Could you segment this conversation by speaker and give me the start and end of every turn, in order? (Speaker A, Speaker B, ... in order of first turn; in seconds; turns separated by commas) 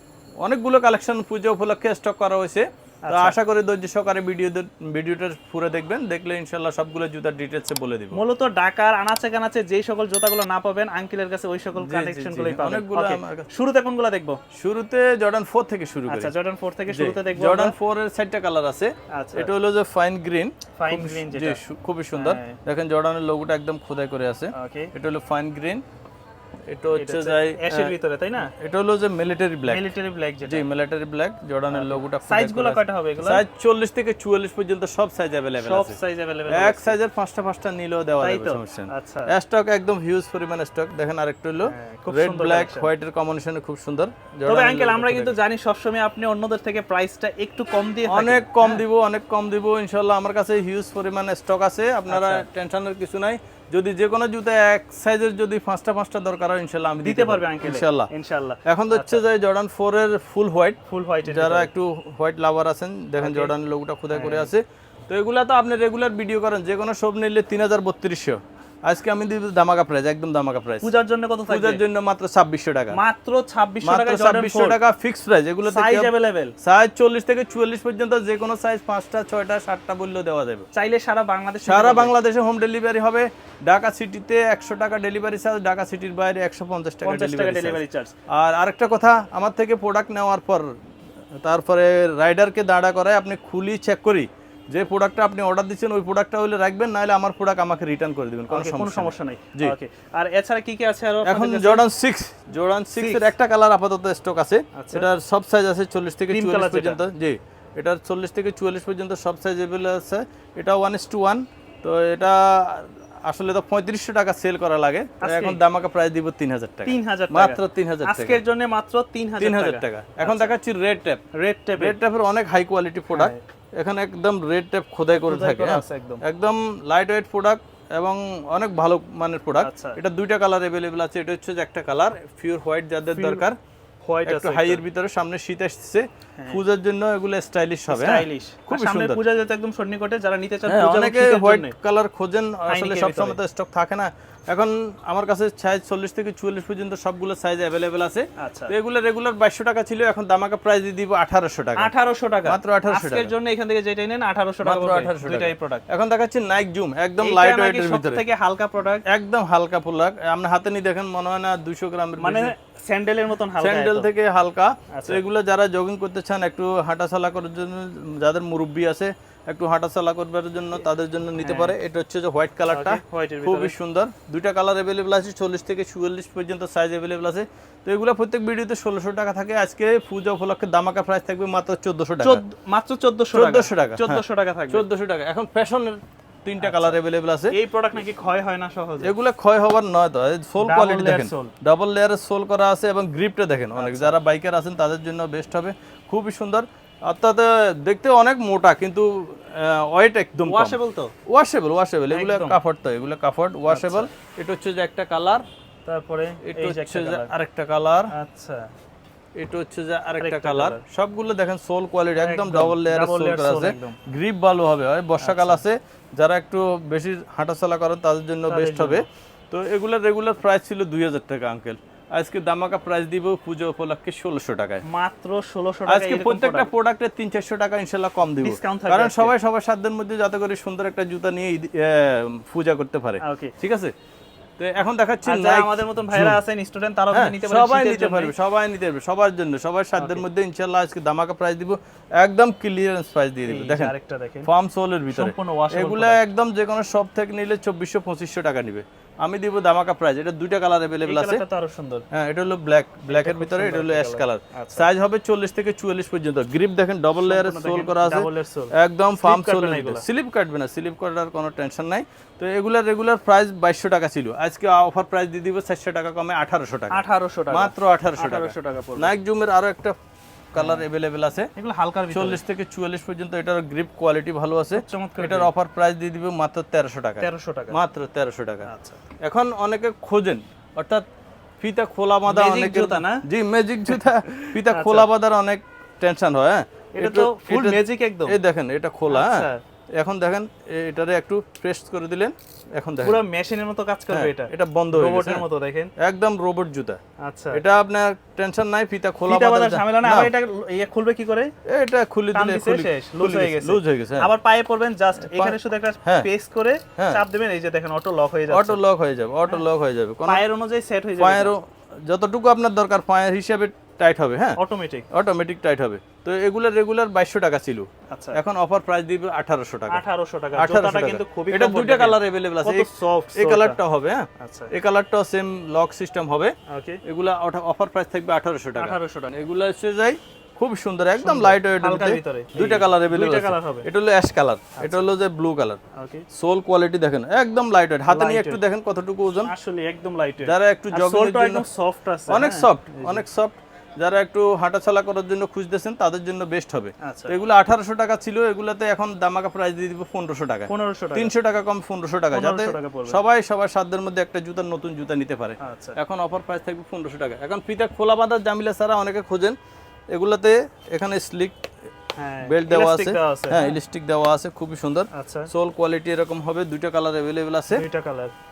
Speaker A: 0.4-8.2, Speaker B: 3.0-3.4, Speaker B: 8.1-14.4, Speaker A: 11.8-13.5, Speaker A: 14.5-16.3, Speaker B: 16.1-17.8, Speaker A: 16.9-25.8, Speaker B: 19.1-19.5, Speaker B: 20.8-21.6, Speaker B: 22.1-22.6, Speaker B: 24.5-24.9, Speaker A: 26.7-27.9, Speaker B: 26.9-28.5, Speaker A: 28.4-29.9, Speaker B: 29.6-30.6, Speaker A: 30.5-36.0, Speaker B: 31.7-33.4, Speaker B: 35.6-37.0, Speaker A: 36.5-45.4, Speaker B: 38.2-39.3, Speaker B: 41.6-42.9, Speaker B: 44.5-48.8, Speaker A: 48.1-58.1, Speaker B: 52.1-52.5, Speaker B: 57.0-59.2, Speaker A: 58.7-70.9, Speaker B: 60.9-61.7, Speaker B: 63.2-63.5, Speaker B: 64.1-64.5, Speaker B: 70.8-71.8, Speaker A: 71.5-73.0, Speaker B: 72.9-74.8, Speaker A: 73.8-80.7, Speaker B: 75.6-76.5, Speaker B: 80.7-82.1, Speaker A: 81.6-90.7, Speaker B: 87.0-88.2, Speaker A: 91.4-99.7, Speaker B: 98.5-101.8, Speaker A: 101.2-118.4, Speaker B: 103.0-103.3, Speaker B: 104.8-105.1, Speaker B: 106.3-107.0, Speaker B: 115.2-115.6, Speaker B: 116.9-120.6, Speaker A: 119.4-121.2, Speaker B: 121.4-122.0, Speaker A: 121.8-133.6, Speaker B: 123.1-123.4, Speaker B: 125.2-126.2, Speaker B: 129.6-130.0, Speaker B: 133.1-133.5, Speaker B: 134.0-134.8, Speaker A: 134.3-139.2, Speaker B: 137.9-141.7, Speaker A: 140.7-151.9, Speaker B: 142.7-143.4, Speaker B: 148.4-148.7, Speaker B: 151.8-155.8, Speaker A: 152.5-153.3, Speaker A: 154.6-158.2, Speaker B: 157.2-159.0, Speaker A: 159.1-162.5, Speaker B: 162.2-164.1, Speaker A: 163.6-182.4, Speaker B: 164.9-165.2, Speaker B: 171.4-171.8, Speaker B: 172.7-173.8, Speaker B: 182.2-184.8, Speaker A: 183.3-187.5, Speaker B: 186.6-187.0, Speaker B: 187.5-189.1, Speaker A: 189.0-200.8, Speaker B: 190.6-191.5, Speaker B: 193.8-194.2, Speaker B: 200.5-201.1, Speaker A: 201.3-205.4, Speaker B: 202.1-202.6, Speaker B: 203.7-204.1, Speaker B: 205.9-207.3, Speaker A: 206.4-208.1, Speaker B: 208.1-208.7, Speaker A: 209.4-224.8, Speaker B: 210.2-210.8, Speaker B: 212.2-214.0, Speaker B: 215.2-215.6, Speaker B: 218.5-219.0, Speaker B: 224.9-226.7, Speaker A: 225.9-233.9, Speaker B: 228.4-229.3, Speaker B: 233.2-233.5, Speaker A: 234.6-236.4, Speaker B: 235.2-238.3, Speaker A: 237.1-243.9, Speaker B: 240.0-240.2, Speaker B: 243.4-244.5, Speaker A: 244.4-251.4, Speaker B: 245.1-246.2, Speaker B: 251.0-252.1, Speaker A: 252.1-269.9, Speaker B: 253.1-254.9, Speaker B: 257.2-260.1, Speaker B: 266.9-269.1, Speaker A: 270.5-271.5, Speaker B: 270.6-270.8, Speaker B: 271.6-272.4, Speaker A: 272.1-278.7, Speaker B: 274.7-275.5, Speaker B: 277.2-277.8, Speaker B: 278.6-279.0, Speaker A: 279.2-281.1, Speaker A: 281.6-293.2, Speaker B: 282.3-283.2, Speaker B: 284.6-285.1, Speaker B: 287.0-288.4, Speaker B: 289.1-289.6, Speaker B: 293.0-295.9, Speaker A: 294.1-295.4, Speaker A: 296.0-297.0, Speaker B: 297.2-297.6, Speaker A: 297.5-300.3, Speaker B: 299.3-301.5, Speaker A: 301.7-304.3, Speaker B: 302.3-308.8, Speaker A: 305.2-306.3, Speaker A: 308.5-310.4, Speaker B: 310.3-311.5, Speaker A: 311.2-314.6, Speaker B: 314.6-315.1, Speaker A: 315.1-320.0, Speaker B: 318.1-318.4, Speaker B: 319.9-323.8, Speaker A: 320.6-326.5, Speaker B: 324.4-324.7, Speaker B: 326.7-327.0, Speaker A: 327.1-335.8, Speaker B: 328.8-329.4, Speaker B: 331.2-333.9, Speaker B: 334.8-335.1, Speaker B: 335.9-336.3, Speaker A: 336.3-339.5, Speaker B: 338.1-338.6, Speaker B: 339.4-343.2, Speaker A: 340.4-341.6, Speaker A: 342.3-359.6, Speaker B: 347.0-347.4, Speaker B: 350.7-351.3, Speaker B: 352.3-353.2, Speaker B: 355.6-356.0, Speaker A: 360.1-361.6, Speaker B: 362.2-363.8, Speaker A: 362.4-367.8, Speaker B: 365.1-365.5, Speaker B: 367.7-368.3